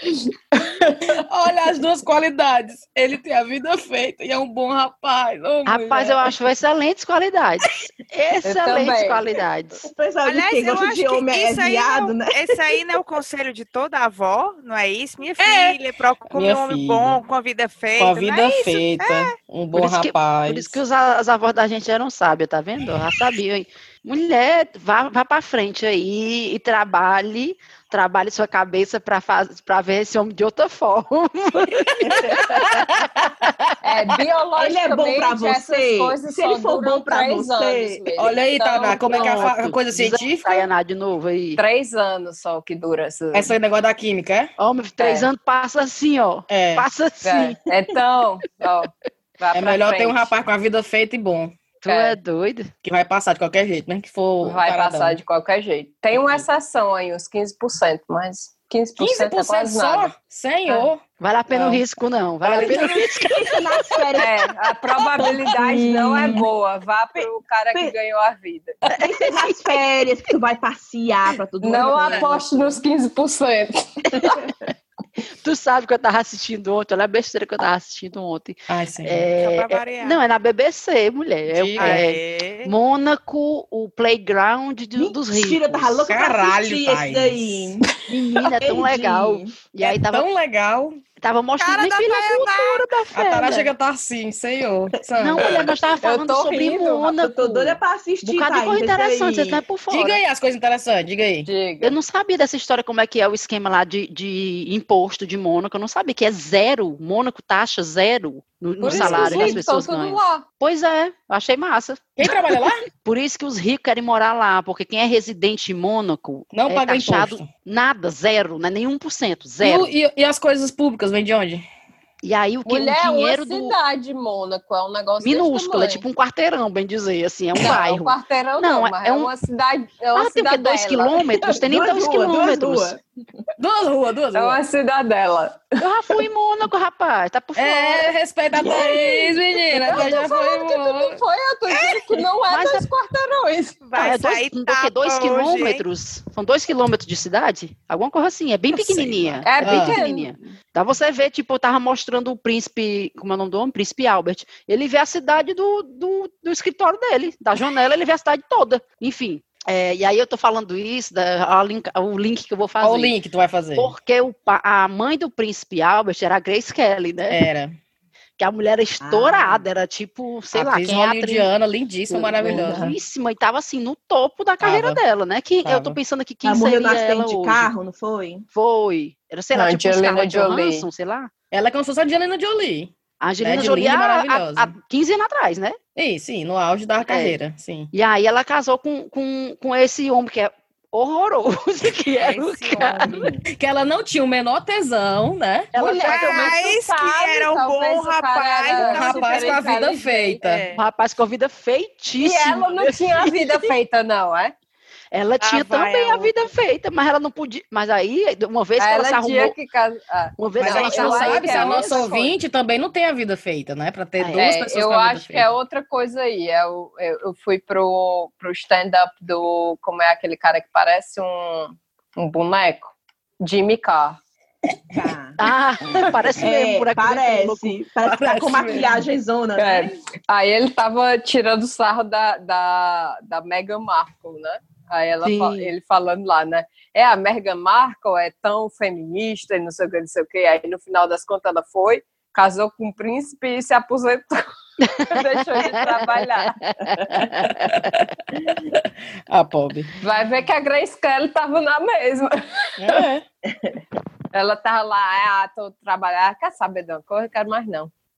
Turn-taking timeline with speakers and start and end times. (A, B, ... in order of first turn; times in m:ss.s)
0:00.5-0:06.4 A
0:05.6-0:09.8 B
0:08.4-0:09.2 C
0:09.8-0:12.8 D
0:10.2-0:19.3 E
0:16.3-0:17.2 A
0:18.0-0:20.8 A
0:19.7-0:33.2 B
0:32.0-0:32.5 D
0:32.3-0:33.5 A
0:33.8-0:39.5 C
0:34.6-0:38.1 D
0:38.2-0:40.7 A
0:39.0-0:41.6 B
0:41.5-0:43.5 C
0:43.3-0:44.5 A
0:44.6-0:47.6 B
0:45.0-0:45.3 C
0:46.5-0:46.8 A
0:47.2-0:50.3 C
0:49.5-0:51.6 A
0:51.8-0:52.7 B
0:51.8-0:52.2 C
0:52.8-0:55.2 A
0:54.4-1:00.1 C
0:56.1-0:56.4 A
0:59.0-1:01.8 A
1:01.2-1:03.6 B
1:02.4-1:03.5 A
1:02.6-1:04.4 D
1:04.2-1:08.8 C
1:05.1-1:06.5 D
1:07.2-1:07.9 D
1:08.8-1:09.4 A
1:09.0-1:12.8 D
1:11.6-1:14.4 C
1:15.4-1:26.1 B
1:18.7-1:19.2 A
1:19.4-1:20.2 E
1:21.5-1:22.0 A
1:21.8-1:22.7 E
1:25.0-1:28.0 D
1:26.1-1:27.7 A
1:28.1-1:30.2 B
1:28.6-1:29.5 D
1:29.8-1:31.0 A
1:31.2-1:33.7 B
1:31.6-1:33.2 E
1:33.1-1:35.7 A
1:35.2-1:40.2 B
1:35.4-1:35.8 D
1:36.0-1:37.1 C
1:37.1-1:39.6 D
1:39.9-1:41.5 A
1:41.4-1:42.0 C
1:41.8-1:59.9 B
1:48.8-1:50.4 C
1:48.8-1:49.6 A
1:52.2-1:52.8 A
1:56.5-1:57.5 A
1:59.6-2:01.6 A
2:02.2-2:03.8 B
2:02.6-2:06.0 C
2:05.2-2:09.3 B
2:07.5-2:11.5 C
2:10.1-2:12.9 B
2:11.5-2:13.0 D
2:13.6-2:14.6 A
2:14.3-2:15.7 C
2:15.8-2:18.1 B
2:17.5-2:21.2 A
2:18.6-2:19.3 D
2:18.6-2:23.9 C
2:22.5-2:22.9 B
2:23.9-2:25.8 E
2:24.0-2:43.1 B
2:28.7-2:30.0 A
2:29.4-2:30.3 C
2:42.8-2:43.9 A
2:43.8-2:47.4 B
2:47.3-2:47.7 A
2:48.4-2:51.5 B
2:49.0-2:49.7 D
2:50.5-2:52.9 A
2:52.1-2:57.7 B
2:52.5-2:52.9 C
2:54.6-2:55.0 A
2:55.6-2:56.0 A
2:56.4-2:58.4 D
2:58.5-3:01.3 B
2:59.5-3:00.9 C
3:01.5-3:04.7 A
3:03.2-3:05.8 B
3:06.0-3:07.9 A
3:07.0-3:07.4 B
3:07.9-3:13.3 B
3:12.2-3:13.4 E
3:12.8-3:13.4 D
3:13.5-3:15.7 A
3:15.7-3:16.3 B
3:15.7-3:20.4 C
3:16.0-3:19.8 E
3:16.3-3:16.5 D
3:18.7-3:20.6 A
3:20.4-3:20.8 E
3:20.7-3:23.7 B
3:22.2-3:24.5 C
3:25.1-3:29.5 B
3:25.4-3:26.4 E
3:28.8-3:32.3 C
3:30.4-3:32.1 B
3:30.6-3:35.5 A
3:34.2-3:34.5 B
3:34.4-3:44.2 C
3:44.9-3:45.4 D
3:45.4-3:47.8 B
3:46.3-3:49.9 D
3:48.0-3:49.1 A
3:49.6-4:06.6 C
3:55.2-3:55.7 B
4:05.0-4:05.8 B
4:06.5-4:07.7 B
4:07.5-4:09.9 A
4:10.0-4:13.0 C
4:12.8-4:13.2 A
4:14.3-4:17.9 C